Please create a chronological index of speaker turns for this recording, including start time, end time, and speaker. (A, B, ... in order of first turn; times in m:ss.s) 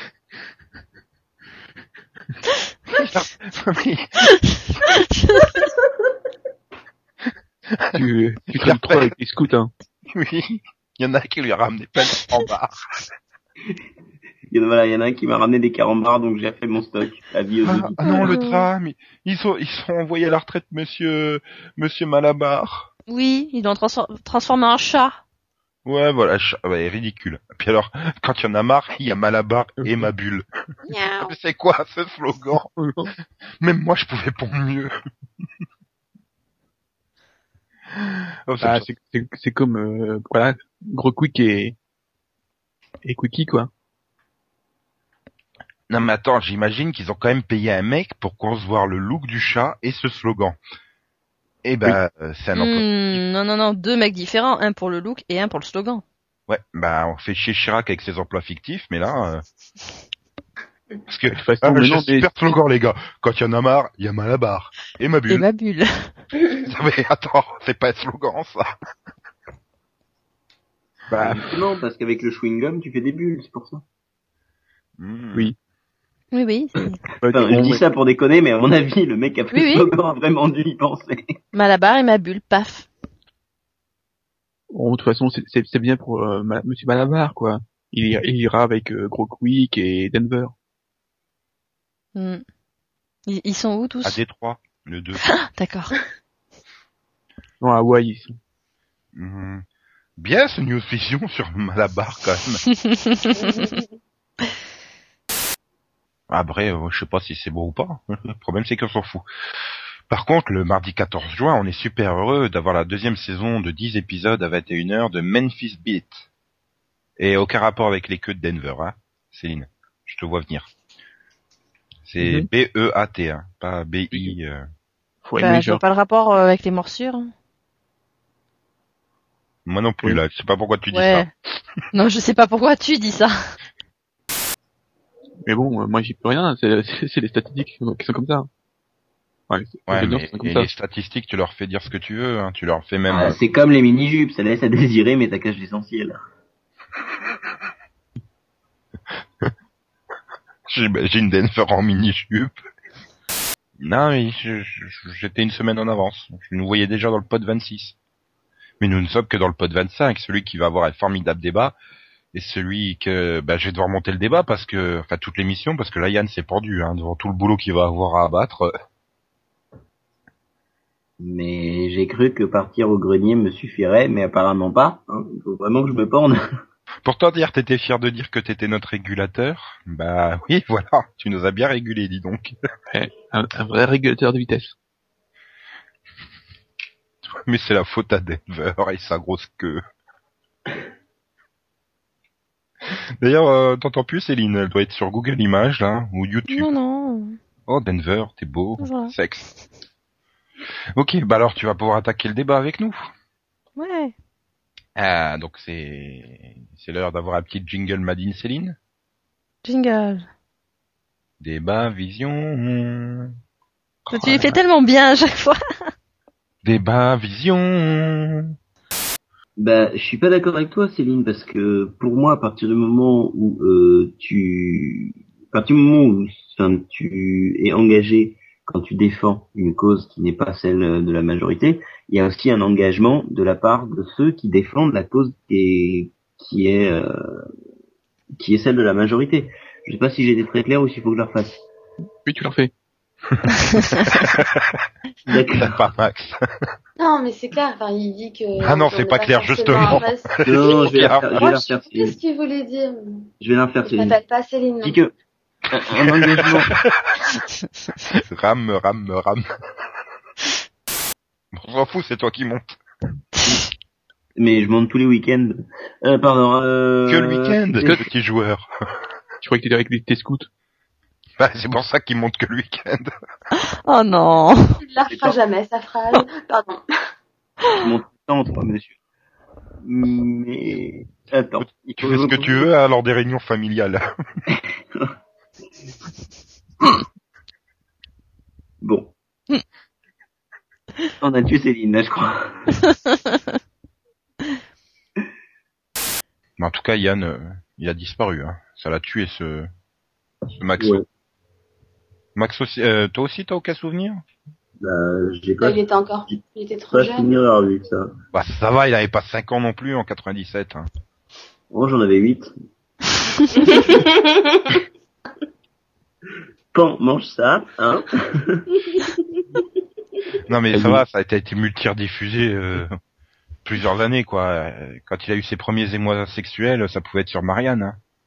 0:02.9-0:04.2 A
0:04.9-0:05.7 B
0:07.9-0:09.7 C
0:08.6-0:09.1 A
0:10.1-0:12.8 A
0:14.5-0:18.0 D
0:17.7-0:22.9 A
0:18.0-0:18.7 B
0:23.1-0:25.2 B
0:25.9-0:30.5 A
0:29.8-0:30.1 C
0:30.9-0:31.2 B
0:31.2-0:32.7 A
0:32.8-0:33.1 C
0:33.6-0:34.9 A
0:37.9-0:38.9 A
0:38.6-0:41.8 C
0:43.0-0:43.7 C
0:45.9-0:50.6 A
0:51.6-0:53.2 A
0:52.6-0:56.0 B
0:56.5-0:59.4 A
1:01.1-1:05.5 A
1:01.3-1:02.3 C
1:05.3-1:06.2 B
1:06.6-1:08.7 A
1:11.1-1:11.5 C
1:11.2-1:13.8 D
1:15.0-1:15.5 A
1:16.3-1:17.0 B
1:17.2-1:17.8 C
1:17.3-1:21.3 D
1:19.5-1:19.9 B
1:21.5-1:22.9 B
1:24.7-1:30.5 C
1:32.2-1:32.4 B
1:33.3-1:34.2 B
1:34.0-1:35.2 A
1:35.2-1:36.0 B
1:37.6-1:38.4 C
1:39.2-1:39.6 A
1:40.2-1:42.6 A
1:42.8-1:43.8 B
1:43.4-1:43.9 E
1:46.3-1:49.2 A
1:50.1-1:56.2 A
1:57.2-2:00.7 A
2:02.1-2:04.7 A
2:02.2-2:02.5 C
2:05.2-2:05.8 C
2:05.4-2:07.3 B
2:09.7-2:11.3 A
2:10.9-2:11.3 B
2:11.9-2:13.3 B
2:15.5-2:18.5 C
2:19.5-2:20.7 C
2:19.9-2:23.4 A
2:23.1-2:26.2 D
2:30.7-2:32.6 A
2:33.8-2:38.0 A
2:38.8-2:41.8 A
2:42.3-2:48.7 A
2:51.2-2:56.4 D
2:57.0-3:02.6 A
3:02.9-3:04.8 C
3:07.4-3:09.8 A
3:12.9-3:16.7 A
3:16.5-3:17.4 B
3:17.7-3:19.5 A
3:18.8-3:19.2 B
3:21.0-3:23.0 A
3:23.8-3:24.1 B
3:25.0-3:28.8 A
3:29.6-3:30.3 B
3:31.4-3:33.4 A
3:34.1-3:35.6 B
3:34.2-3:34.4 A
3:34.2-3:34.5 C
3:36.6-3:38.6 A
3:39.6-3:57.4 D
3:58.4-4:01.6 D
4:02.2-4:02.7 C
4:04.1-4:04.8 A
4:05.3-4:05.9 D
4:05.6-4:06.4 A
4:07.0-4:13.3 E
4:08.6-4:11.5 A
4:10.4-4:12.2 D
4:13.4-4:14.2 D
4:13.8-4:15.0 E
4:14.8-4:15.1 D
4:15.7-4:16.8 D
4:18.1-4:19.5 A
4:21.5-4:22.8 A
4:24.4-4:27.9 D
4:27.1-4:28.7 A
4:27.8-4:28.1 C
4:29.4-4:30.5 C
4:31.4-4:33.1 A
4:33.6-4:34.7 B
4:34.8-4:36.8 E
4:35.1-4:35.4 D
4:37.7-4:38.9 D
4:39.8-4:42.7 D
4:41.6-4:44.0 A
4:44.5-4:45.1 D
4:48.8-4:49.1 D
4:51.2-4:52.7 D
4:56.6-4:59.7 A
5:00.6-5:01.0 A
5:00.8-5:01.0 D
5:02.4-5:04.2 A
5:04.8-5:08.1 D
5:05.6-5:07.3 E
5:08.3-5:10.9 A
5:11.7-5:12.5 D
5:13.7-5:14.7 E
5:16.7-5:18.8 D
5:20.5-5:23.0 A
5:20.7-5:21.0 C
5:23.6-5:28.0 A